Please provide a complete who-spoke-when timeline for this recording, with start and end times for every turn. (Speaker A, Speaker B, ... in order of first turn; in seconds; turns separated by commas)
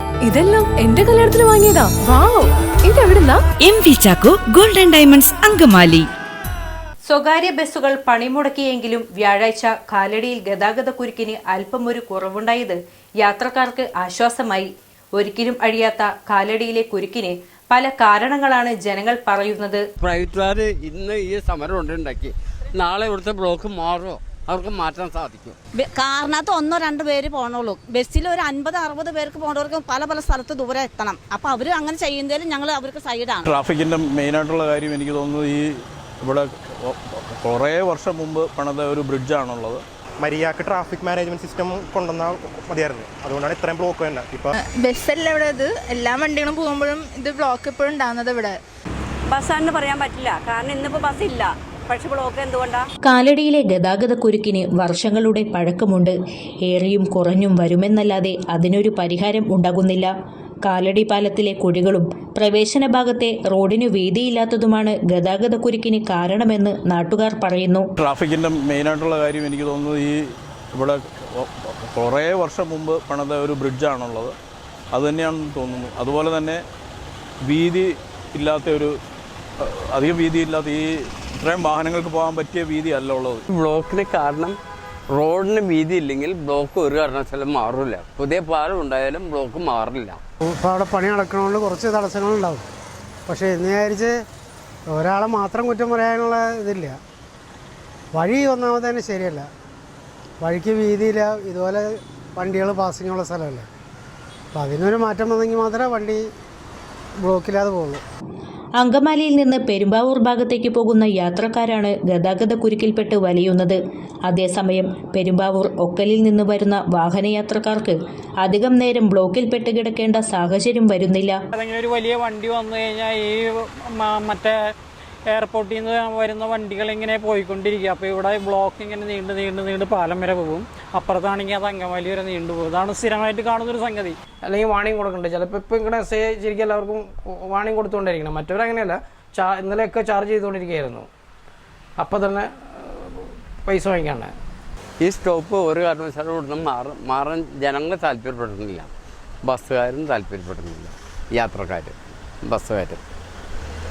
Speaker A: 0.2-3.4, Speaker B: 3.6-6.1, Speaker C: 7.0-19.8, Speaker D: 20.0-25.6, Speaker E: 25.8-33.4, Speaker F: 33.4-39.8, Speaker G: 40.2-44.5, Speaker H: 44.6-48.5, Speaker I: 49.3-52.8, Speaker C: 53.0-56.1, Speaker C: 56.6-60.1, Speaker C: 60.6-67.8, Speaker F: 68.0-70.2, Speaker F: 70.7-74.3, Speaker F: 74.9-76.6, Speaker F: 77.4-78.9, Speaker F: 79.6-83.4, Speaker D: 83.5-84.6, Speaker D: 85.1-90.2, Speaker J: 90.6-92.6, Speaker J: 93.3-94.1, Speaker J: 94.9-97.0, Speaker J: 98.1-99.5, Speaker J: 100.4-103.7, Speaker J: 104.5-106.2, Speaker J: 107.2-108.0, Speaker C: 108.8-121.4, Speaker K: 121.5-124.6, Speaker K: 125.3-134.2, Speaker L: 134.4-141.1, Speaker L: 142.0-144.3, Speaker D: 145.0-148.9, Speaker D: 149.4-153.0